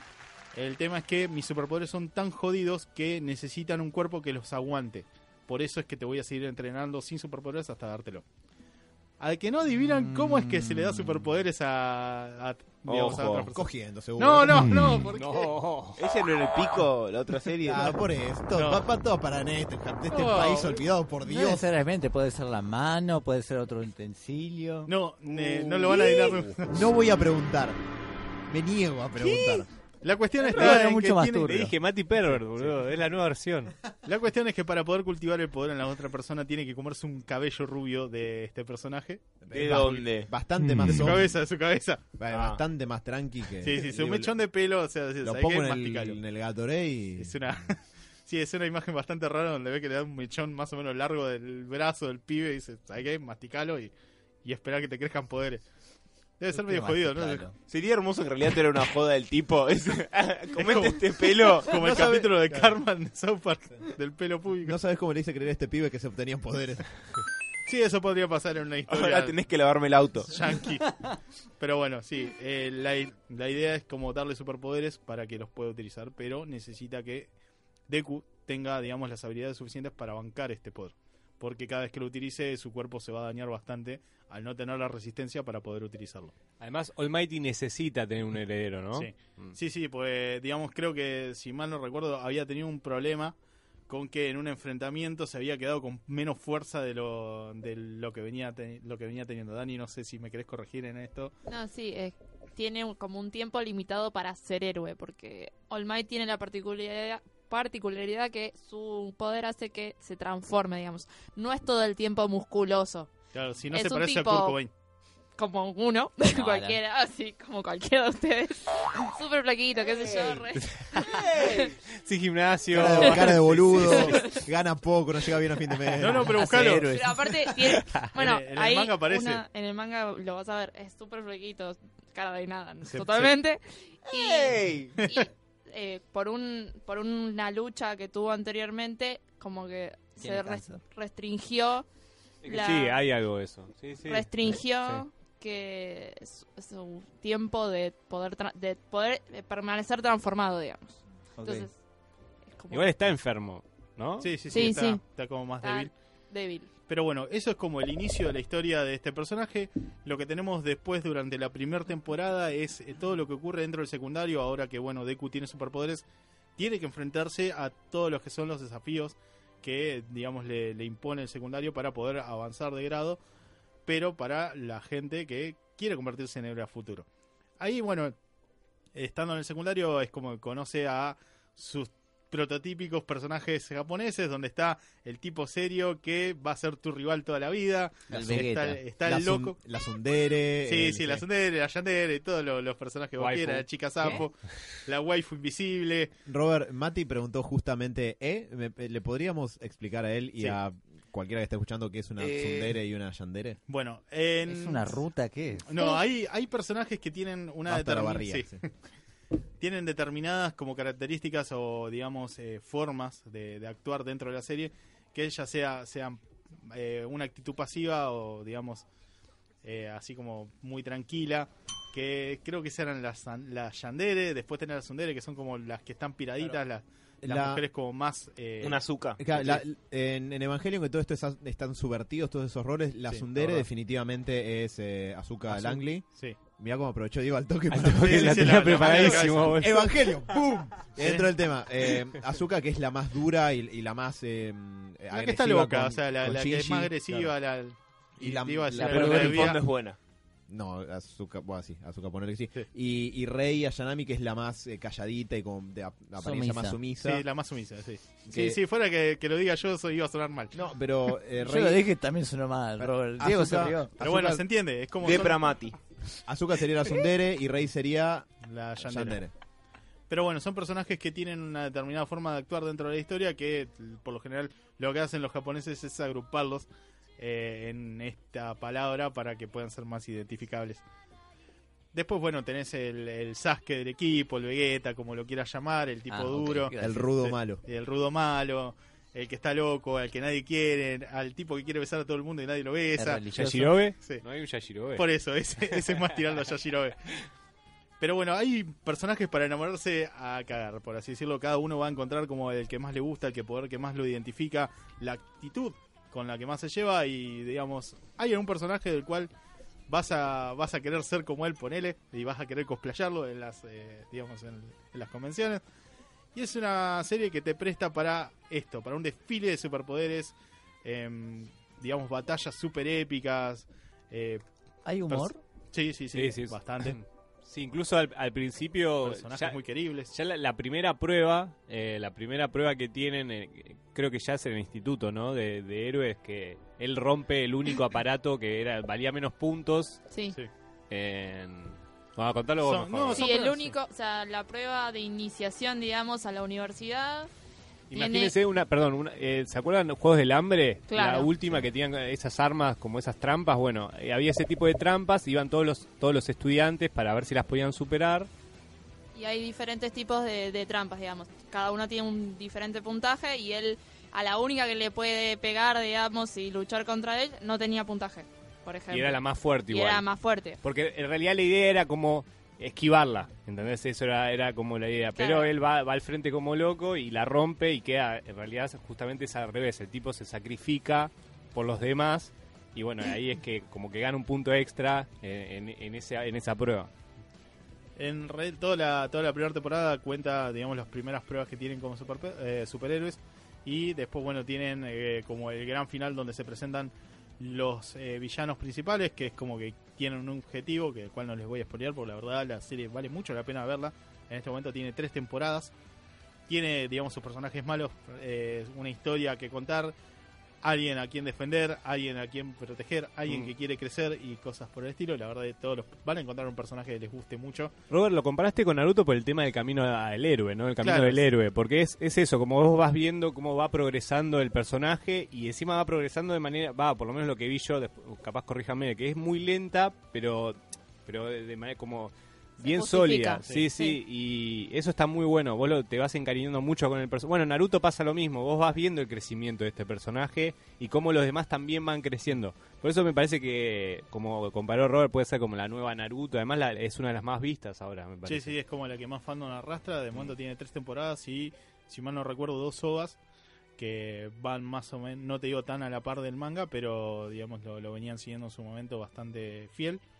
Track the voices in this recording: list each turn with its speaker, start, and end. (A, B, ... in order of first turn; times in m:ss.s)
0:00.5-0:08.2 A
0:09.2-0:15.6 A
0:09.9-0:11.2 B
0:12.8-0:13.5 C
0:13.5-0:14.9 D
0:15.0-0:16.0 E
0:16.0-0:18.0 C
0:17.6-0:21.7 D
0:18.5-0:18.8 A
0:20.1-0:20.8 A
0:21.2-0:24.9 B
0:24.9-0:26.7 A
0:25.8-0:26.3 B
0:26.7-0:27.8 D
0:28.5-0:29.7 D
0:29.2-0:29.6 B
0:30.0-0:31.7 A
0:30.4-0:31.7 B
0:31.4-0:33.7 E
0:34.0-0:39.2 A
0:39.4-0:41.4 D
0:39.5-0:40.3 C
0:40.8-0:42.0 A
0:42.2-0:44.3 D
0:42.3-0:42.6 C
0:43.6-0:46.2 A
0:45.2-0:47.6 D
0:47.2-0:53.9 A
0:54.4-0:55.6 A
0:56.4-0:57.4 A
0:56.5-0:57.5 B
0:57.6-1:01.9 C
1:00.5-1:04.8 A
1:01.7-1:02.8 D
1:04.6-1:06.9 D
1:07.6-1:09.3 A
1:08.9-1:10.5 C
1:10.3-1:10.9 A
1:11.6-1:17.3 A
1:17.9-1:26.3 A
1:26.6-1:29.5 E
1:28.9-1:33.3 A
1:33.9-1:41.3 A
1:41.5-1:53.1 F
1:53.3-1:54.7 A
1:53.7-1:54.6 F
1:55.4-2:00.8 F
1:56.3-1:56.8 B
2:00.0-2:00.4 C
2:00.6-2:01.2 E
2:01.0-2:01.7 C
2:01.3-2:01.7 F
2:01.9-2:04.0 E
2:02.7-2:06.3 D
2:02.8-2:04.4 F
2:03.5-2:03.9 A
2:06.0-2:06.9 A
2:06.0-2:07.5 B
2:06.9-2:21.9 F
2:08.1-2:09.4 A
2:12.8-2:13.3 A
2:14.1-2:15.0 C
2:15.0-2:15.2 A
2:20.2-2:20.8 B
2:22.4-2:25.0 E
2:22.4-2:23.0 F
2:24.0-2:31.8 F
2:31.4-2:31.7 B
2:32.4-2:32.9 F
2:32.7-2:34.3 E
2:34.2-2:35.9 A
2:34.5-2:35.0 F
2:35.6-2:36.7 F
2:36.9-2:46.0 A
2:46.6-2:53.2 A
2:53.8-2:57.0 A
2:57.6-2:58.2 A
2:59.0-3:09.5 A
3:08.1-3:08.8 B
3:08.2-3:08.4 D
3:09.0-3:11.2 D
3:10.6-3:16.1 A
3:13.2-3:14.3 E
3:16.2-3:23.6 D
3:23.7-3:25.0 A
3:24.5-3:25.7 B
3:25.6-3:28.7 A
3:27.7-3:28.6 D
3:29.6-3:38.8 A
3:39.6-3:48.8 A
3:47.2-3:47.6 D
3:48.6-3:49.6 C
3:49.2-4:07.3 D
3:53.1-3:53.7 A
3:55.5-3:56.4 A
3:57.7-4:00.3 E
3:57.9-3:59.6 A
4:05.1-4:09.6 A
4:08.2-4:09.5 D
4:08.7-4:10.0 C
4:09.1-4:09.5 B
4:10.5-4:17.2 D
4:16.2-4:16.8 B
4:17.0-4:20.5 A
4:18.3-4:18.6 D
4:20.5-4:21.8 D
4:21.4-4:23.9 B
4:22.8-4:24.4 D
4:24.0-4:25.4 A
4:25.0-4:25.8 C
4:26.2-4:29.3 D
4:28.4-4:29.2 A
4:30.1-4:36.7 A
4:37.2-4:40.8 A
4:41.9-4:53.2 A
4:46.1-4:47.1 B
4:46.8-4:47.6 D
4:53.0-4:53.9 B
4:53.3-4:55.0 E
4:54.9-4:57.1 A
4:55.7-4:56.0 E
4:58.0-5:09.3 A
5:09.9-5:15.6 A
5:16.3-5:24.4 A
5:24.8-5:25.4 B
5:25.1-5:27.0 A
5:26.1-5:29.6 E
5:29.0-5:30.1 A
5:30.1-5:40.0 E
5:40.1-5:40.4 F
5:40.9-5:43.5 E
5:42.6-5:43.7 A
5:43.1-5:47.3 F
5:47.9-5:58.3 E
5:47.9-5:48.3 F
5:50.9-5:51.3 F
5:59.1-6:10.6 F
6:08.9-6:10.1 E
6:10.6-6:26.9 E
6:15.1-6:15.5 F
6:28.0-6:45.7 A
6:46.5-6:49.9 A
6:50.6-6:57.7 A
6:57.9-7:28.6 E
7:00.8-7:01.2 A
7:12.6-7:14.0 F
7:28.2-7:33.2 A
7:33.8-7:40.0 A